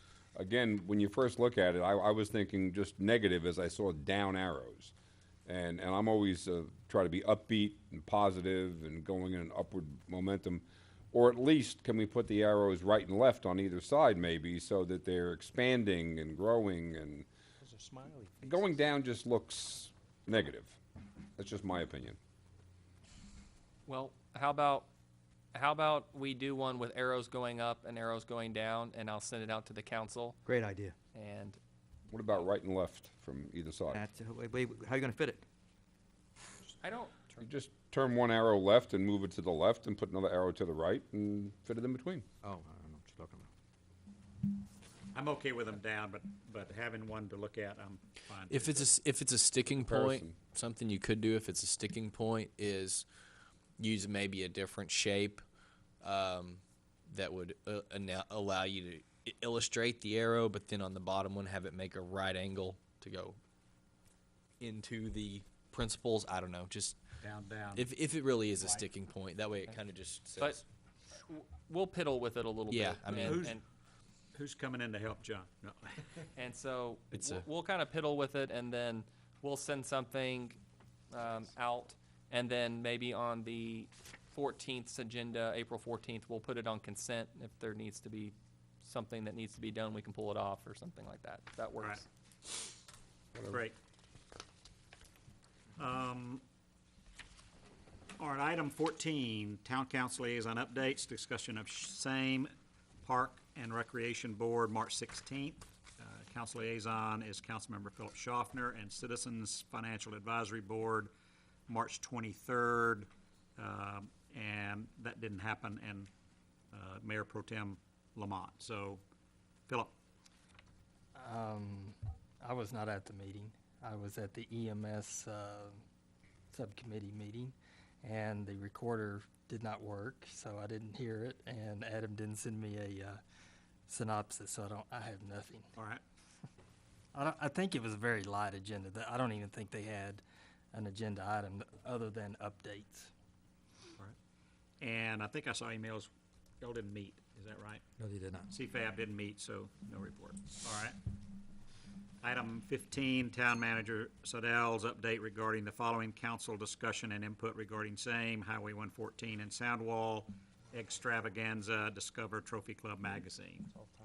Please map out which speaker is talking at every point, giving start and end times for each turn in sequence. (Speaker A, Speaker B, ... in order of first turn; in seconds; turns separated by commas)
Speaker A: 0.3-4.9, Speaker A: 5.5-17.3, Speaker A: 18.4-20.8, Speaker A: 21.4-22.2, Speaker B: 23.9-24.9, Speaker B: 25.5-30.4, Speaker C: 30.4-30.9, Speaker B: 31.1-31.6, Speaker A: 32.1-34.0, Speaker C: 33.9-35.4, Speaker B: 36.8-37.3, Speaker A: 37.4-42.2, Speaker C: 42.4-43.5, Speaker D: 45.1-48.9, Speaker E: 48.5-53.0, Speaker A: 49.8-50.4, Speaker E: 53.8-55.4, Speaker E: 56.0-63.4, Speaker E: 64.6-67.0, Speaker D: 67.2-67.9, Speaker E: 67.7-70.6, Speaker B: 71.2-73.6, Speaker E: 72.7-73.5, Speaker D: 73.1-73.6, Speaker D: 74.3-76.2, Speaker B: 76.3-80.6, Speaker E: 77.1-77.4, Speaker B: 81.1-92.0, Speaker A: 93.3-93.6, Speaker D: 93.5-93.8, Speaker D: 95.8-96.4, Speaker D: 98.2-102.5, Speaker D: 103.0-111.1, Speaker D: 111.7-116.1, Speaker D: 116.7-119.0, Speaker D: 119.7-119.9, Speaker F: 121.1-125.8, Speaker F: 126.5-133.2, Speaker F: 133.9-135.7, Speaker D: 135.8-136.0, Speaker F: 137.1-143.1, Speaker D: 144.8-146.1, Speaker D: 146.6-147.8, Speaker C: 148.0-148.5, Speaker D: 148.5-151.0, Speaker D: 152.2-163.7